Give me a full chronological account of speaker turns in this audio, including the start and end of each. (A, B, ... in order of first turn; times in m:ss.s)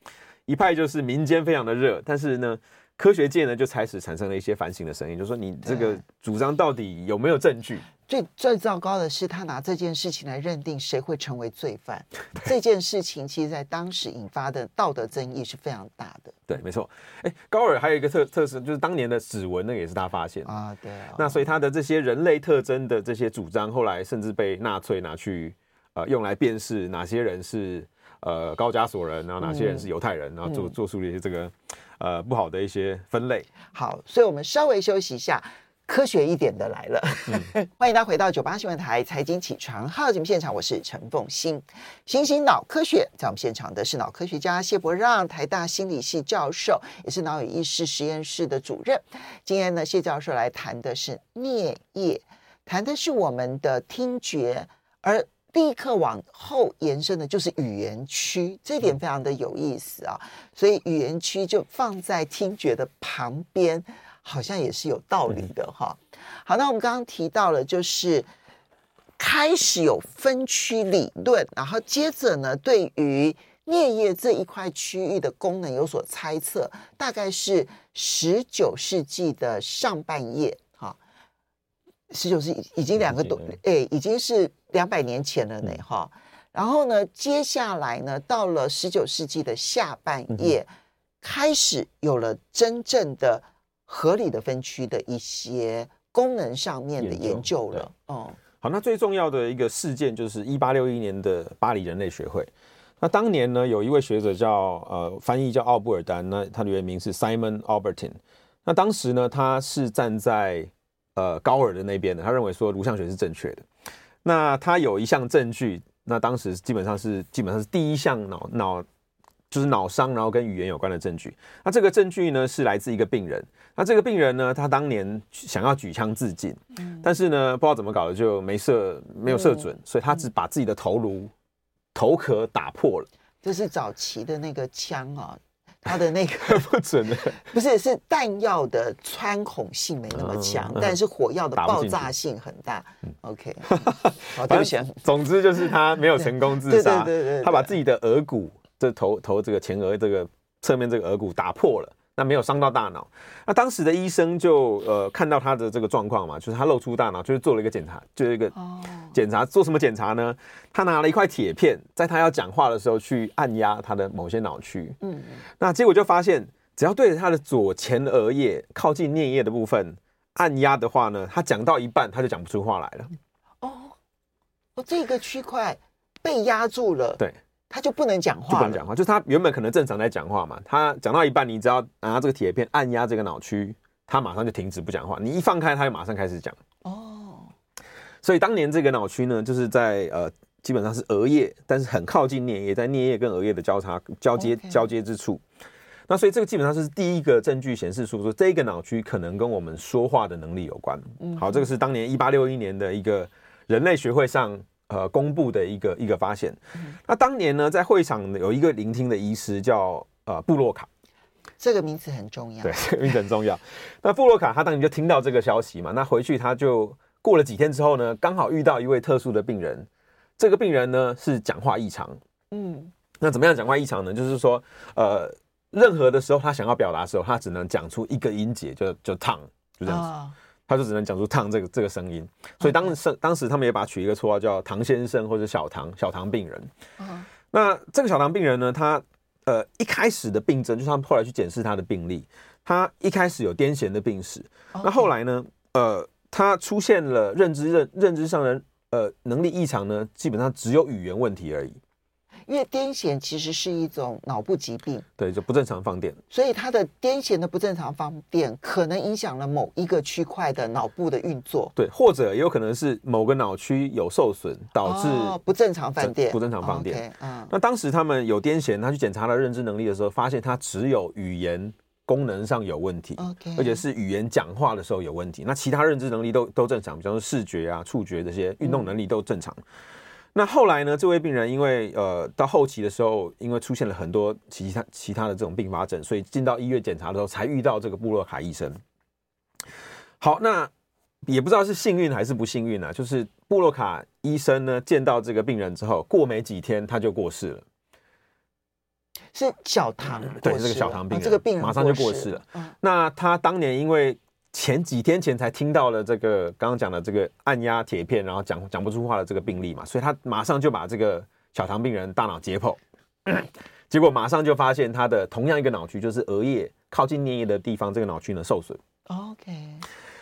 0:00.5-0:07.8 A
0:05.6-0:06.0 B
0:08.1-0:16.5 B
0:16.5-0:20.5 A
0:20.4-0:21.4 B
0:21.2-0:33.5 A
0:29.4-0:29.9 B
0:33.7-1:08.3 B
1:09.2-1:21.0 B
1:22.1-1:30.7 B
1:23.0-1:23.6 A
1:31.2-1:38.4 B
1:37.0-1:37.9 A
1:38.6-1:42.5 A
1:43.0-1:53.6 A
1:54.2-1:58.8 A
1:59.5-2:11.3 A
2:06.8-2:07.1 B
2:09.2-2:09.7 B
2:11.9-2:13.1 A
2:13.4-2:16.7 B
2:16.4-2:17.4 A
2:17.2-2:25.0 B
2:20.1-2:21.0 A
2:21.6-2:22.1 A
2:23.7-2:38.5 A
2:26.2-2:27.7 B
2:38.5-2:39.1 B
2:39.1-2:45.0 A
2:45.0-2:45.4 B
2:45.6-2:53.1 A
2:53.6-2:54.0 B
2:54.8-2:58.8 B
2:58.5-3:06.6 A
3:06.8-3:07.5 B
3:08.2-3:15.4 A
3:14.4-3:14.9 B
3:16.1-3:30.9 A
3:21.2-3:21.6 B
3:31.6-3:33.1 B
3:32.6-3:42.2 A
3:42.5-3:42.9 B
3:43.2-3:50.1 A
3:49.8-3:50.3 B
3:50.7-3:56.7 A
3:52.6-3:52.9 B
3:57.0-3:57.3 B
3:57.5-4:11.8 A
4:04.7-4:05.1 B
4:12.5-4:15.0 B
4:15.2-4:16.2 A
4:16.3-4:21.7 B
4:21.8-4:25.4 A
4:24.8-4:27.5 B
4:26.0-4:39.6 A
4:33.2-4:33.8 B
4:38.6-4:38.9 B
4:40.3-4:48.8 A
4:50.2-4:50.7 A
4:51.2-4:57.6 A
4:59.3-5:02.7 B
5:00.2-5:18.8 A
5:19.1-5:19.8 B